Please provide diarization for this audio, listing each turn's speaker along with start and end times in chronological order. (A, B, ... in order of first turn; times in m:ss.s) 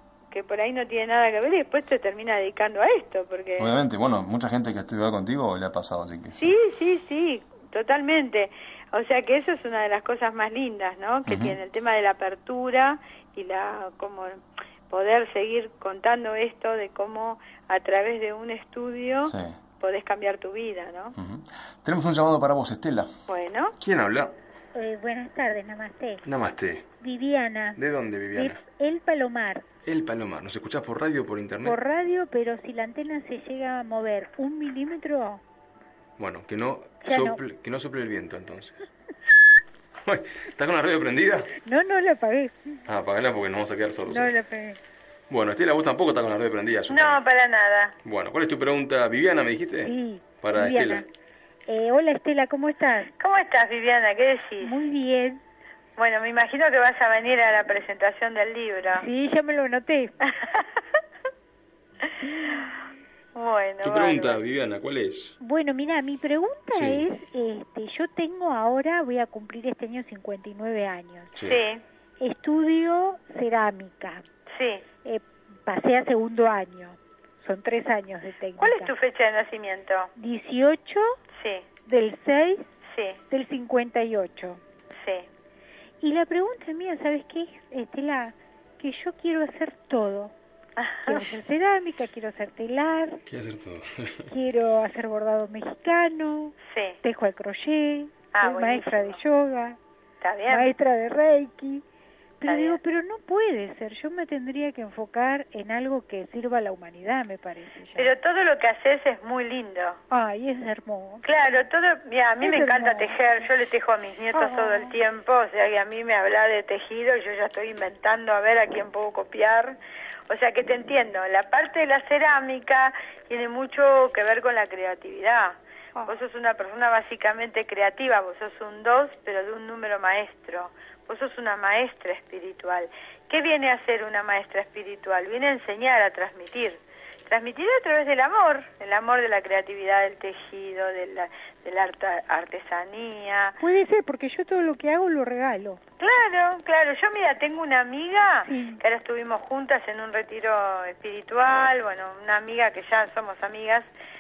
0:00.3-0:03.7 A
0:03.6-0:06.5 B
0:06.4-0:21.2 A
0:11.3-0:11.6 B
0:19.3-0:19.6 B
0:21.2-0:23.1 B
0:23.3-0:23.8 A
0:23.8-0:24.3 B
0:24.8-0:26.3 C
0:26.2-0:26.9 B
0:27.0-0:27.8 C
0:27.8-0:28.6 B
0:28.4-0:29.7 C
0:29.8-0:31.8 B
0:31.6-0:35.4 C
0:36.2-0:38.8 B
0:37.0-0:37.4 C
0:40.0-0:41.6 B
0:41.6-0:42.8 C
0:42.9-0:44.3 B
0:44.1-0:44.8 C
0:45.3-0:47.2 B
0:46.9-0:48.0 A
0:48.0-0:51.0 B
0:49.8-0:51.0 C
0:51.7-0:53.1 C
0:53.2-0:54.8 A
0:54.6-0:55.4 C
0:56.0-0:59.1 A
0:59.0-1:00.1 C
1:00.3-1:00.6 A
1:03.4-1:04.4 A
1:03.8-1:05.4 B
1:05.4-1:11.3 C
1:06.7-1:07.1 B
1:11.4-1:11.6 B
1:11.4-1:11.8 A
1:12.2-1:14.3 C
1:14.5-1:14.8 A
1:15.0-1:18.9 C
1:18.6-1:20.1 A
1:20.2-1:21.2 C
1:21.3-1:21.6 A
1:21.9-1:22.7 C
1:22.9-1:23.2 A
1:23.3-1:24.6 C
1:26.0-1:30.3 C
1:30.8-1:31.3 A
1:31.1-1:33.2 C
1:33.3-1:34.3 B
1:34.3-1:39.8 C
1:36.7-1:37.0 A
1:38.3-1:39.2 A
1:40.2-1:40.7 A
1:40.5-1:41.8 C
1:42.4-1:48.1 C
1:42.4-1:42.8 A
1:48.0-1:50.0 A
1:50.1-1:51.2 C
1:51.2-1:59.8 A
1:52.4-1:53.2 C
1:54.3-1:54.9 C
2:00.3-2:23.6 A
2:23.6-2:25.8 C
2:26.0-2:33.9 A
2:28.5-2:28.8 C